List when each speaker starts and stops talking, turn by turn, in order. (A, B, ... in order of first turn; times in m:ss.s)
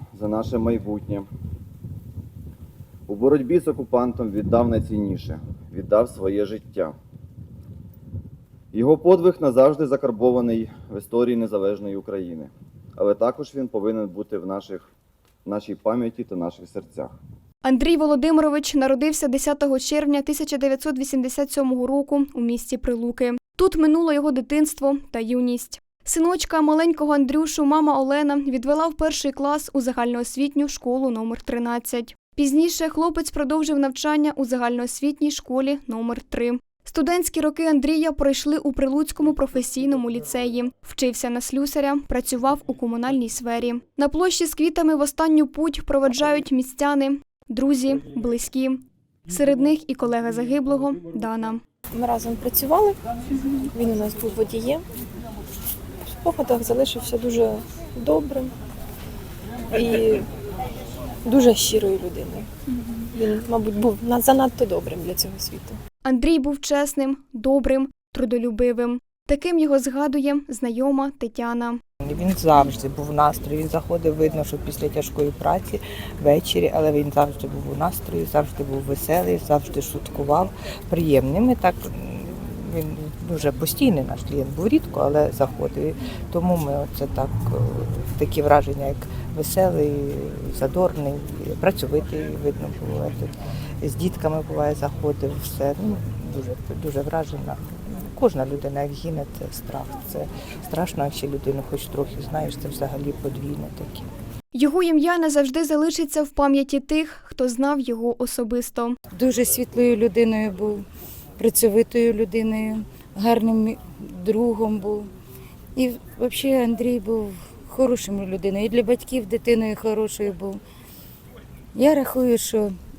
0:00.2-0:01.3 A
0:03.1-0:07.0 A
0:08.7-0:14.9 A
0:15.5-0:17.1 A
0:17.6-0:51.6 B
0:51.9-0:54.8 C
0:56.1-0:58.5 C
0:59.7-1:00.3 C
1:01.2-1:02.5 C
1:03.0-1:05.8 C
1:06.0-1:11.8 B
1:12.0-1:44.1 D
1:44.5-1:49.0 B
1:49.1-1:50.8 E
1:51.4-1:55.1 E
1:55.8-2:00.6 E
2:01.8-2:02.7 E